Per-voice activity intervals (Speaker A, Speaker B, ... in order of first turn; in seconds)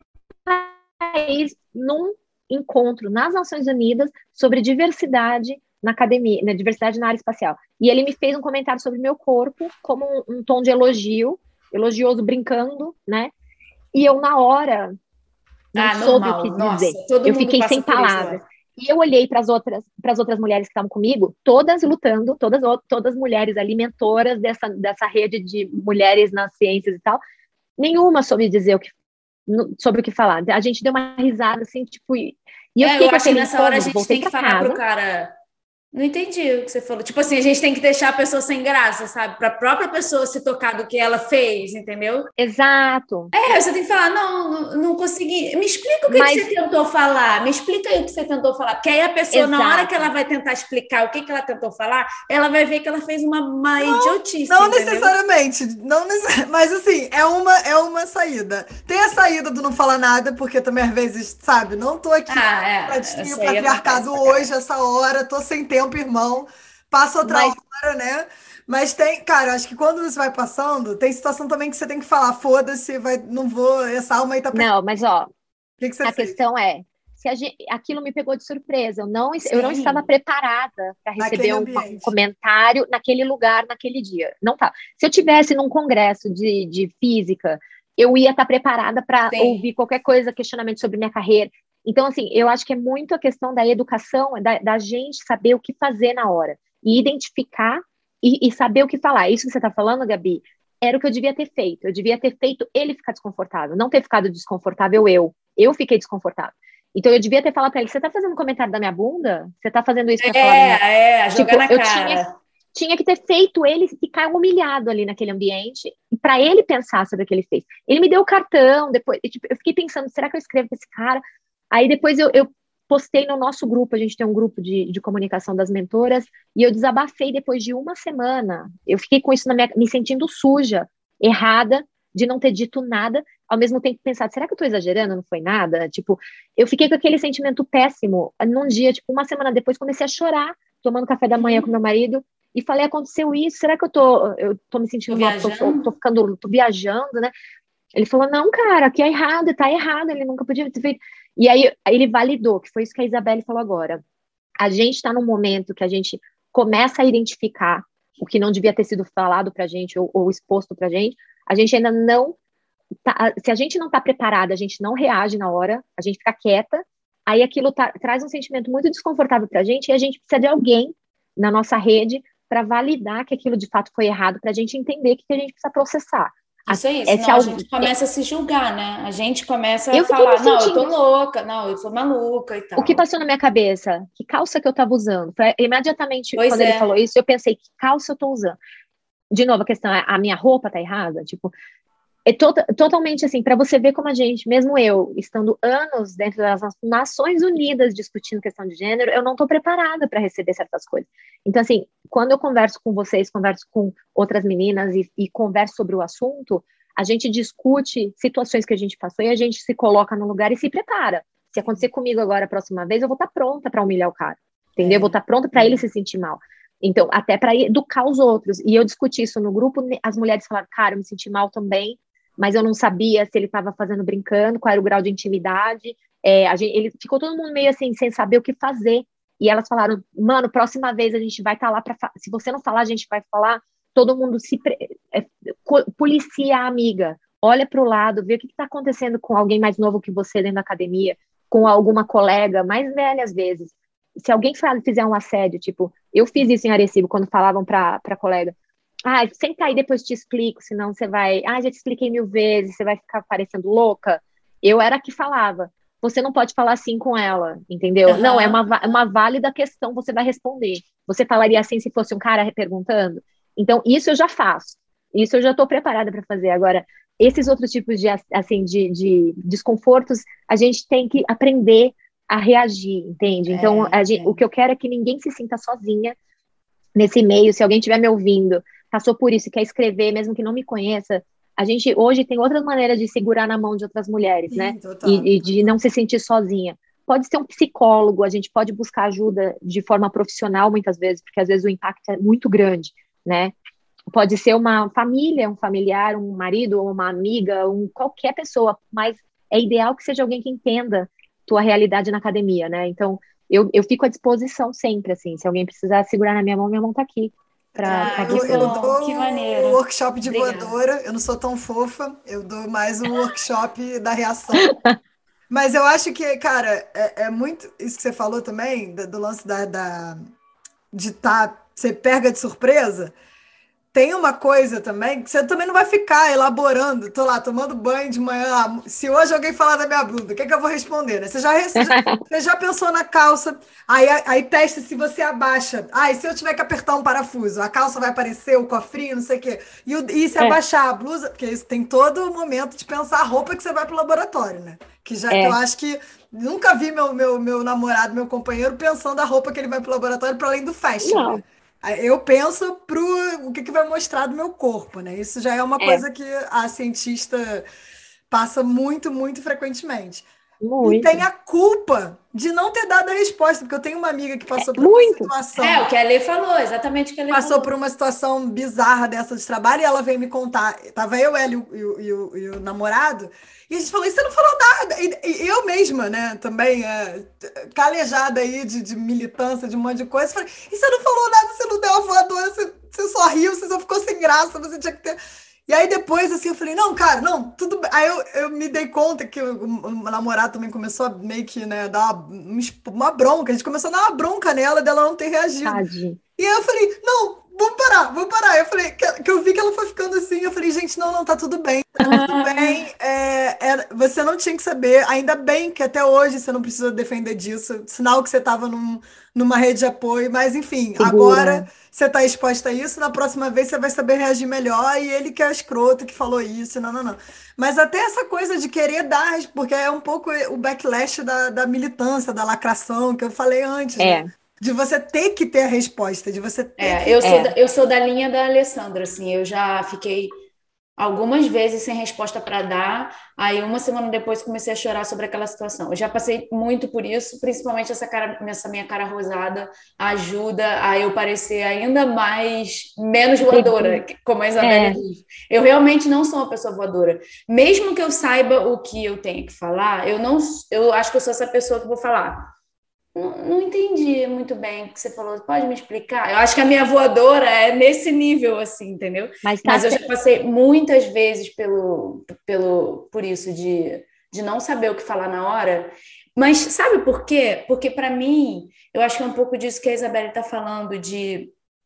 Speaker A: 0.5-13.3, 13.9-14.9, 15.7-27.2, 27.8-28.9, 29.5-34.8, 42.4-43.3, 46.1-46.5, 49.3-50.1, 67.2-67.6, 74.5-75.3, 76.0-110.8, 111.3-112.2, 112.8-147.3, 147.9-154.0, 154.6-162.3, 163.1-177.9, 179.9-180.9, 182.8-188.6, 189.3-191.5, 192.3-248.5, 249.1-276.2, 277.0-293.5, 294.1-308.8, 314.6-315.0, 331.8-332.2, 345.3-345.6, 351.0-351.4, 355.8-356.0, 360.6-361.2, 364.6-365.3, 395.6-396.2, 402.0-402.5, 411.0-411.7, 424.0-424.3, 427.2-427.5, 443.5-444.0, 444.6-445.0, 459.4-460.1
Speaker B: 15.8-18.4, 32.8-35.3, 35.9-42.3, 43.3-55.1, 62.3-64.5, 79.4-80.1, 89.3-89.6, 110.2-112.3, 141.3-141.7, 145.1-145.9, 176.7-183.0, 186.4-186.9, 214.8-215.8, 258.1-258.7, 273.5-274.4, 307.9-310.8, 365.6-367.7, 426.8-430.3, 431.0-452.5, 453.1-471.5
Speaker C: 53.8-74.7, 75.8-76.4, 81.2-82.2, 284.5-285.8, 307.8-314.7, 315.5-320.3, 320.9-323.1, 323.9-357.6, 358.3-360.3, 360.8-365.9, 367.3-395.8, 396.4-427.2